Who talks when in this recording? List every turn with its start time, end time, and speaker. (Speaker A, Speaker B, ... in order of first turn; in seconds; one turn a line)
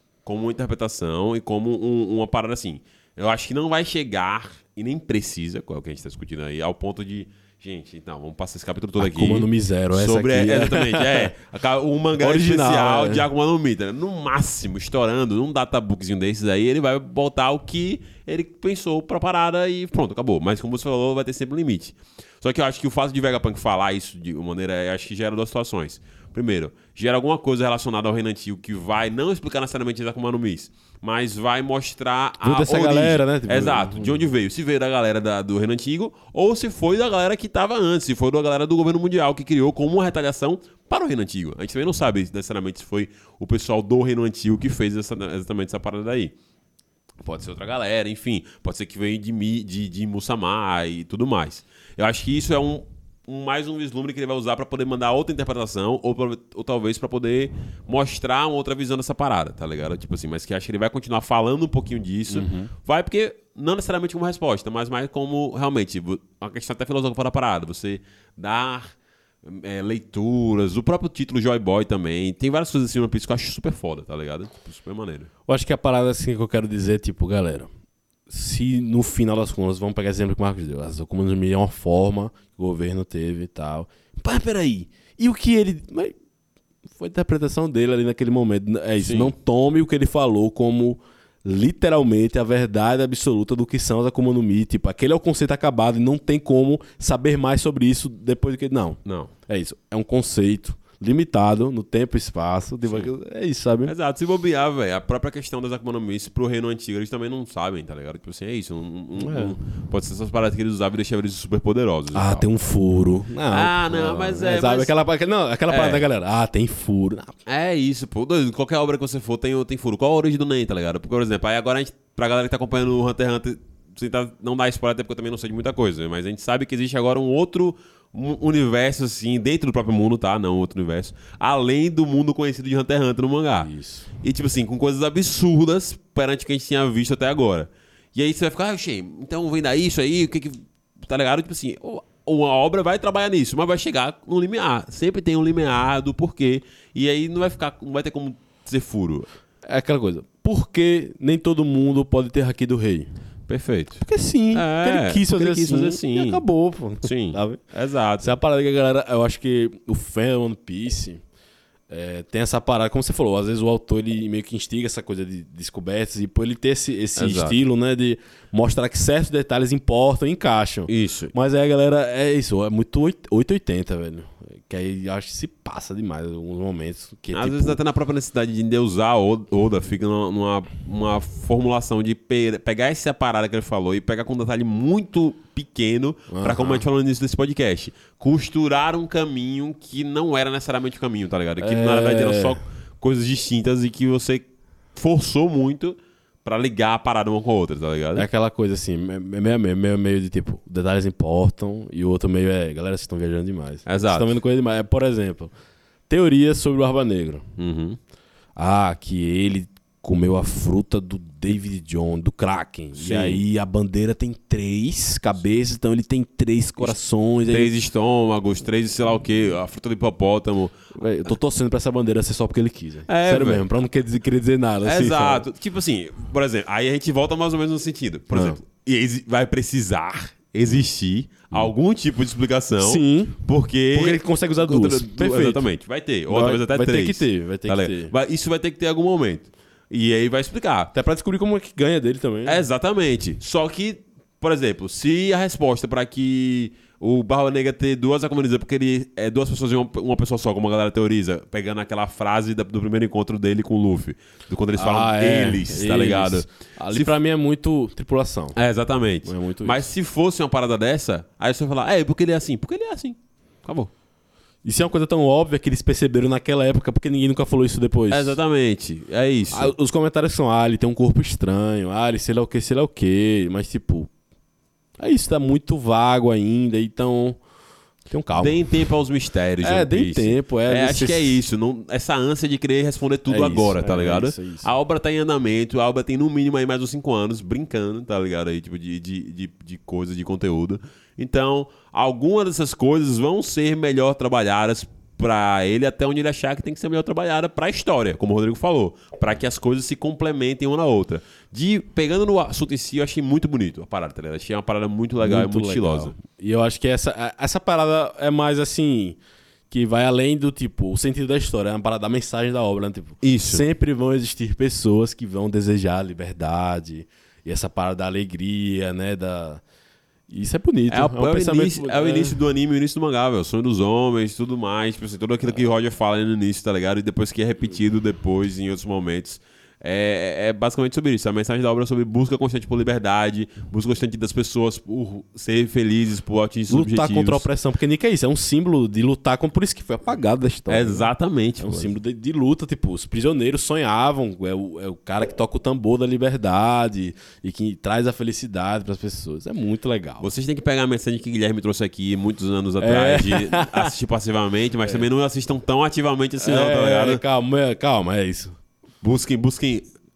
Speaker A: 0.2-46.3
Speaker B: 9.0-11.3
Speaker B: 12.2-13.3
Speaker B: 32.4-34.2
Speaker A: 47.2-75.3
Speaker B: 62.3-62.7
Speaker B: 75.5-77.7
Speaker B: 78.3-86.2
Speaker B: 86.9-103.9
Speaker A: 89.0-89.3
Speaker A: 99.0-99.3
Speaker A: 103.8-112.5
Speaker B: 109.2-109.6
Speaker B: 112.1-117.3
Speaker A: 113.5-114.9
Speaker A: 115.7-116.1
Speaker A: 117.5-149.3
Speaker B: 133.6-134.1
Speaker B: 149.6-153.1
Speaker A: 153.5-156.4
Speaker B: 154.0-157.6
Speaker A: 157.0-158.4
Speaker B: 158.2-161.2
Speaker B: 161.9-177.8
Speaker A: 167.2-167.6
Speaker A: 170.9-171.3
Speaker A: 177.3-198.3
Speaker B: 186.3-186.8
Speaker B: 191.6-192.6
Speaker B: 198.2-205.5
Speaker A: 203.9-204.4
Speaker B: 206.1-207.4
Speaker A: 207.6-208.0
Speaker B: 208.6-217.7
Speaker A: 213.0-213.4
Speaker A: 217.5-220.9
Speaker B: 220.9-225.4
Speaker A: 223.1-223.7
Speaker A: 224.8-240.9
Speaker B: 228.3-228.6
Speaker B: 232.8-233.4
Speaker B: 233.9-235.7
Speaker B: 236.3-238.1
Speaker B: 240.9-242.7
Speaker A: 242.4-257.2
Speaker B: 254.8-258.6
Speaker A: 258.6-263.9
Speaker B: 259.2-259.9
Speaker B: 264.6-268.4
Speaker A: 268.1-269.7
Speaker B: 269.5-274.1
Speaker B: 275.0-277.4
Speaker B: 278.1-278.7
Speaker A: 278.4-306.1
Speaker B: 279.6-281.4
Speaker B: 283.3-284.7
Speaker B: 305.2-309.2
Speaker B: 309.7-319.6
Speaker A: 313.2-313.6
Speaker B: 320.3-322.4
Speaker A: 320.9-337.5
Speaker B: 336.7-350.3
Speaker A: 340.7-341.9
Speaker A: 350.2-357.2
Speaker B: 352.8-353.9
Speaker B: 356.4-358.6
Speaker A: 359.0-359.9